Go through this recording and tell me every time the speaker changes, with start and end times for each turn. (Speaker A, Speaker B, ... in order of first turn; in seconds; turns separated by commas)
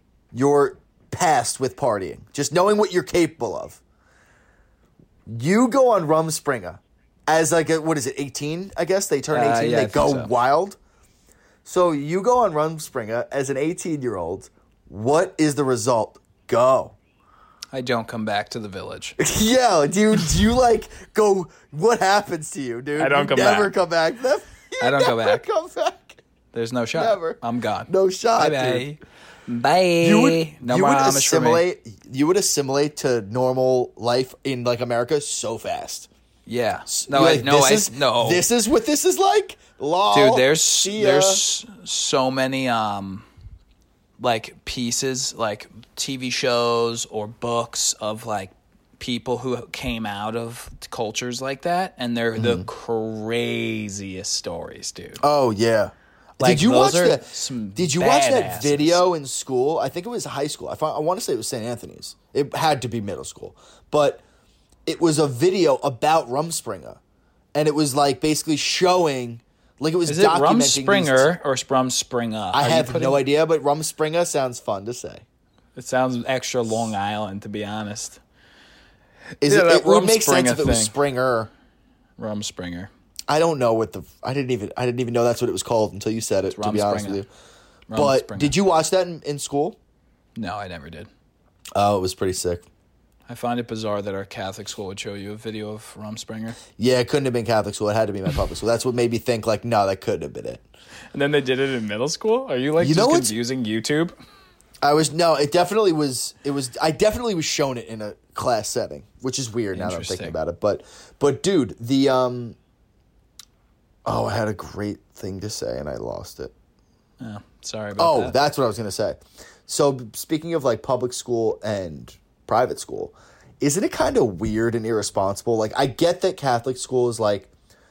Speaker A: 0.3-3.8, Speaker A: 5.3-10.8, Speaker B: 9.3-10.3, Speaker A: 11.7-17.0, Speaker B: 17.7-19.2, Speaker A: 19.2-26.2, Speaker B: 23.0-23.8, Speaker B: 24.8-25.5, Speaker B: 26.5-31.6, Speaker A: 26.9-28.9, Speaker A: 30.0-36.1, Speaker B: 36.5-38.4, Speaker A: 36.9-41.4, Speaker B: 40.1-43.3, Speaker B: 44.2-55.2, Speaker A: 52.4-52.7, Speaker A: 55.2-64.2, Speaker B: 56.4-59.0, Speaker A: 64.9-67.0, Speaker A: 67.5-71.3, Speaker B: 70.1-73.2, Speaker A: 72.5-75.2, Speaker B: 75.8-78.2, Speaker B: 79.4-80.9, Speaker A: 79.4-81.5, Speaker B: 82.2-82.9, Speaker A: 83.3-87.3, Speaker B: 86.5-87.2, Speaker B: 87.9-88.5, Speaker A: 88.0-89.8, Speaker B: 90.4-91.1, Speaker A: 91.8-92.6, Speaker B: 93.3-96.6, Speaker A: 96.8-100.6, Speaker B: 101.1-104.2, Speaker A: 102.8-103.3, Speaker A: 104.8-112.6, Speaker B: 109.7-110.4, Speaker A: 114.0-116.5, Speaker B: 117.2-118.3, Speaker A: 118.0-127.5